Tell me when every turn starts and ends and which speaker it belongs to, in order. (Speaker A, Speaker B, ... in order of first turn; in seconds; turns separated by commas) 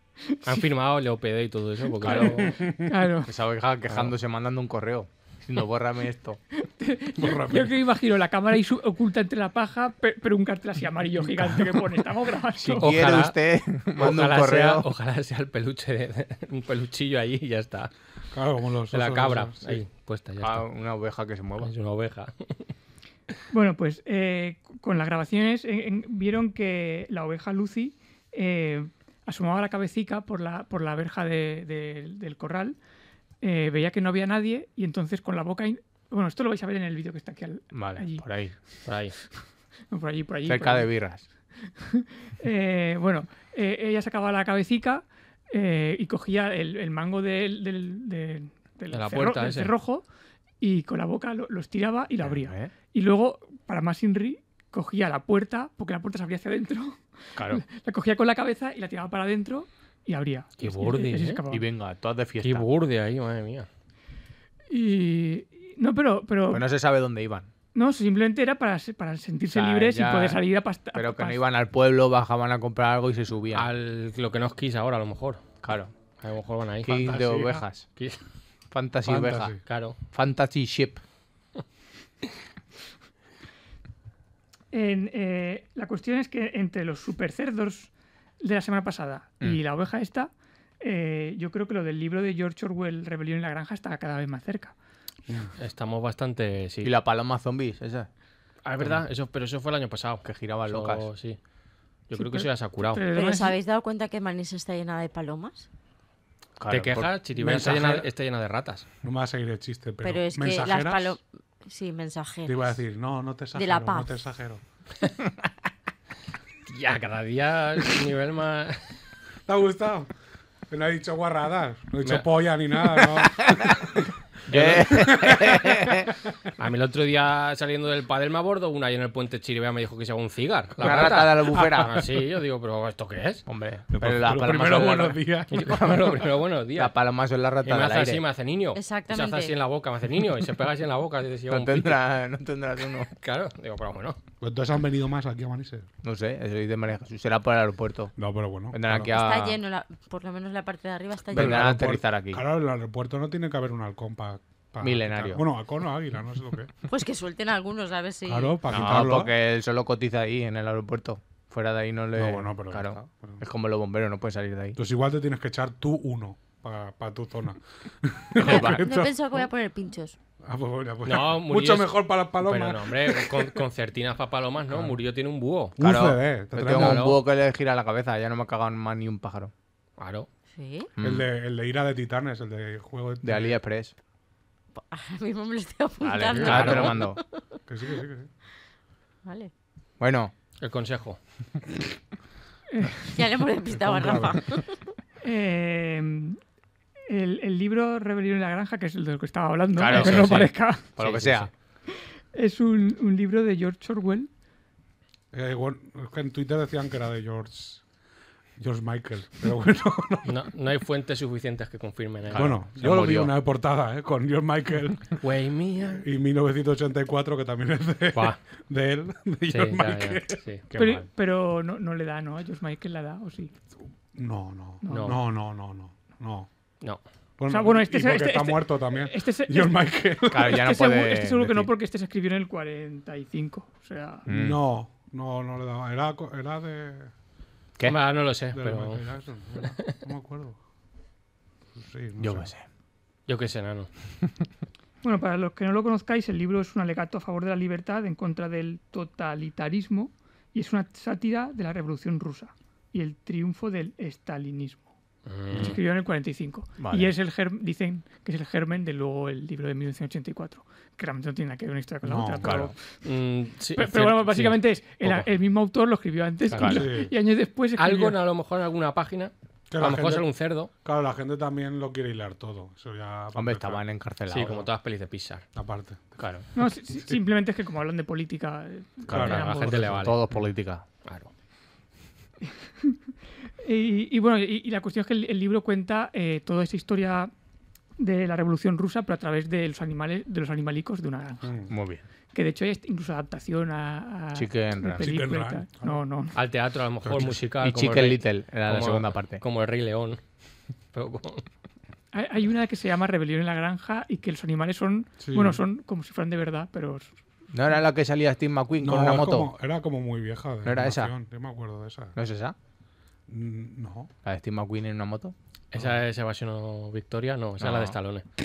Speaker A: 0.2-0.6, Speaker B: 0.5-2.6, Speaker A: 2.0-3.3, Speaker C: 2.2-2.9, Speaker D: 3.2-6.4, Speaker A: 6.5-12.9, Speaker C: 7.2-7.7, Speaker D: 12.6-14.9, Speaker B: 12.8-13.3, Speaker B: 13.9-17.9, Speaker C: 18.3-19.8, Speaker B: 18.9-20.6, Speaker D: 20.4-21.7, Speaker B: 21.6-22.7, Speaker A: 23.5-32.8, Speaker A: 33.4-38.2, Speaker D: 37.7-38.5, Speaker B: 38.9-39.1, Speaker A: 39.9-40.9, Speaker D: 40.5-41.2, Speaker A: 41.6-50.0, Speaker B: 48.9-49.7, Speaker A: 50.6-61.6, Speaker D: 52.2-52.7, Speaker D: 57.4-57.6, Speaker B: 60.6-61.4, Speaker D: 61.5-62.7, Speaker B: 62.4-63.7, Speaker A: 64.7-66.7, Speaker D: 66.5-67.5, Speaker A: 67.7-71.4, Speaker D: 69.5-70.4, Speaker D: 70.9-73.7, Speaker B: 73.5-75.4, Speaker D: 75.6-75.9, Speaker B: 76.2-77.4, Speaker D: 76.8-77.8, Speaker C: 77.1-77.6, Speaker D: 78.7-79.6, Speaker C: 79.0-79.6, Speaker B: 79.7-80.0, Speaker D: 80.1-81.0, Speaker A: 84.7-87.9, Speaker A: 88.4-94.7, Speaker B: 95.6-96.9, Speaker D: 96.8-98.1, Speaker B: 98.6-101.4, Speaker D: 100.2-101.0, Speaker B: 102.1-103.0, Speaker A: 102.1-103.6, Speaker E: 103.0-105.7, Speaker D: 106.6-108.0, Speaker B: 106.7-108.8, Speaker C: 107.4-108.0, Speaker C: 109.0-111.2, Speaker E: 110.0-112.7, Speaker C: 112.5-114.6, Speaker E: 113.5-114.1, Speaker B: 116.7-118.8, Speaker C: 119.5-120.1, Speaker C: 120.7-126.1, Speaker B: 122.0-122.3, Speaker D: 124.5-126.1, Speaker B: 124.5-124.8, Speaker B: 126.6-133.4, Speaker D: 130.8-132.0, Speaker D: 133.5-135.7, Speaker C: 133.9-136.1, Speaker B: 135.5-136.9, Speaker D: 136.7-138.2, Speaker B: 137.6-142.0, Speaker E: 138.7-139.5, Speaker D: 141.5-143.1, Speaker B: 143.1-144.2, Speaker C: 144.4-145.9, Speaker D: 146.0-148.1, Speaker C: 148.2-149.1, Speaker D: 148.7-149.6, Speaker E: 149.1-151.7, Speaker D: 151.3-152.4, Speaker C: 151.3-156.7, Speaker D: 154.8-155.4, Speaker E: 156.9-158.8, Speaker C: 158.2-159.3, Speaker D: 158.7-164.8, Speaker C: 162.1-163.4, Speaker C: 164.8-169.5, Speaker E: 168.4-170.2, Speaker D: 168.4-168.8, Speaker C: 170.4-173.6, Speaker B: 171.0-175.7, Speaker C: 174.7-175.0, Speaker C: 175.8-177.1, Speaker D: 175.8-179.5, Speaker B: 176.7-177.2, Speaker B: 180.0-180.3, Speaker E: 180.5-180.9, Speaker D: 181.0-181.3, Speaker C: 181.0-183.6, Speaker D: 183.2-183.9, Speaker E: 184.8-187.4, Speaker D: 186.0-187.2, Speaker C: 186.3-186.9, Speaker B: 186.4-187.0, Speaker C: 187.7-188.3, Speaker E: 189.2-189.5, Speaker D: 190.0-190.3, Speaker B: 190.6-191.2, Speaker A: 192.7-193.1, Speaker E: 193.1-194.7, Speaker C: 193.7-194.6, Speaker A: 195.2-196.4, Speaker A: 197.1-200.8, Speaker D: 199.8-201.5, Speaker B: 199.9-201.5, Speaker A: 201.9-204.3, Speaker C: 205.3-207.8, Speaker C: 208.6-210.3, Speaker B: 210.2-212.6, Speaker D: 212.3-213.3, Speaker C: 212.3-215.2, Speaker B: 215.2-216.0, Speaker C: 215.9-220.4, Speaker B: 219.5-220.6, Speaker D: 220.7-221.0, Speaker A: 220.7-223.5, Speaker C: 224.1-226.5, Speaker A: 224.8-225.2, Speaker B: 224.9-225.2, Speaker C: 227.4-230.6, Speaker A: 227.5-234.3, Speaker D: 230.3-231.7, Speaker D: 234.3-234.6, Speaker C: 234.3-237.1, Speaker B: 237.8-239.1, Speaker C: 238.5-240.6, Speaker C: 241.8-242.5, Speaker D: 242.2-242.6, Speaker B: 243.3-243.9, Speaker A: 245.0-254.9, Speaker B: 255.2-255.8, Speaker C: 255.5-255.8, Speaker A: 255.6-262.8, Speaker D: 256.8-257.1, Speaker C: 262.0-262.7, Speaker D: 262.4-262.7, Speaker B: 263.0-265.2, Speaker A: 263.8-268.2, Speaker D: 266.6-266.9, Speaker C: 266.6-267.1, Speaker B: 267.8-270.7, Speaker C: 269.7-270.3, Speaker C: 270.8-273.8, Speaker D: 273.3-274.6, Speaker B: 274.3-275.4, Speaker C: 275.5-276.2, Speaker D: 276.2-276.4, Speaker A: 276.5-279.9, Speaker D: 279.1-280.8, Speaker C: 279.1-280.3, Speaker B: 279.1-280.2, Speaker B: 281.0-281.3, Speaker A: 282.5-283.0, Speaker A: 283.6-287.3, Speaker A: 288.0-291.5, Speaker C: 291.4-291.7, Speaker D: 291.7-292.0, Speaker A: 292.3-296.4, Speaker D: 294.3-295.1, Speaker C: 295.0-296.0, Speaker B: 296.3-300.2, Speaker C: 297.0-297.4, Speaker D: 297.5-299.4, Speaker B: 300.9-301.4, Speaker A: 302.1-307.1, Speaker C: 305.2-305.6, Speaker D: 307.5-309.5, Speaker C: 308.8-312.1, Speaker D: 310.6-311.1, Speaker D: 312.1-312.6, Speaker C: 313.3-314.1, Speaker D: 314.2-315.3, Speaker B: 315.7-318.2, Speaker D: 317.6-318.0